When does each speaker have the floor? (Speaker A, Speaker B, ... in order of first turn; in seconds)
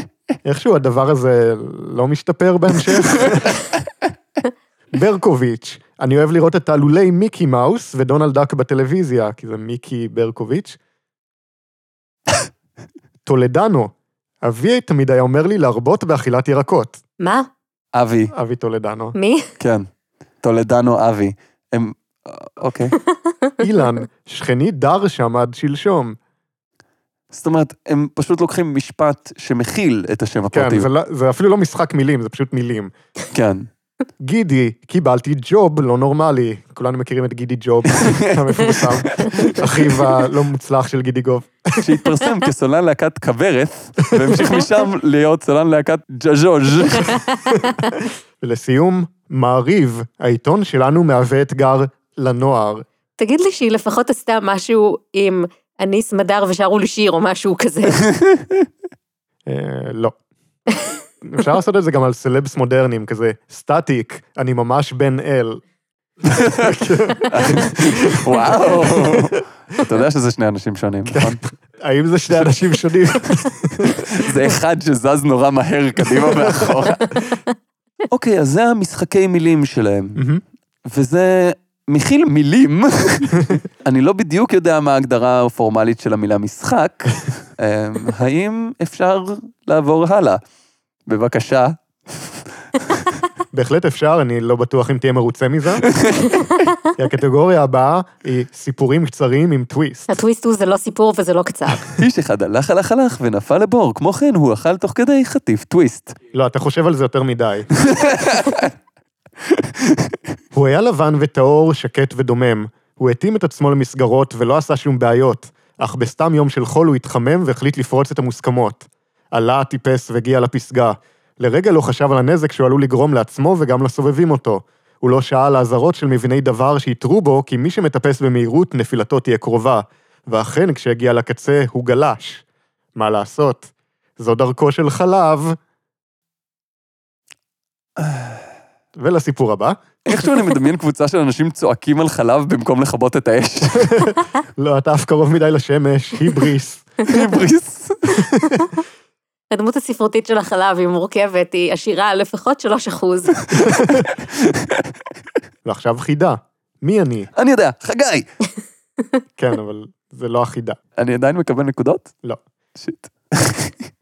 Speaker A: 0.4-3.5, 4.9-10.8, 13.3-17.0, 18.3-19.1, 23.6-26.2, 30.5-32.9, 34.2-41.8, 48.4-52.9, 59.5-60.1, 61.2-65.6, 66.4-69.4, 71.1-74.2, 76.4-76.7, 80.2-80.4, 93.5-95.9, 97.0-100.1, 106.3-107.7, 110.5-132.4, 132.9-135.6, 139.0-139.8, 143.9-146.9, 148.2-148.7, 153.6-154.1, 155.7-157.3, 159.4-160.8
Speaker B: 17.2-17.5, 19.1-19.5, 47.1-47.6, 53.2-58.1, 100.1-101.9, 149.5-153.5
Speaker C: 17.9-18.3, 19.6-19.9, 20.4-23.0, 27.3-30.9, 33.3-33.7, 37.9-39.6, 41.8-47.2, 58.1-58.5, 66.2-71.4, 73.9-77.2, 78.1-80.2, 80.8-90.4, 91.1-92.4, 95.9-96.3, 101.9-106.2, 107.8-108.7, 109.5-110.2, 138.0-138.4, 140.1-144.0, 147.1-148.2, 153.5-154.9, 157.3-158.3, 161.0-162.1, 162.8-163.8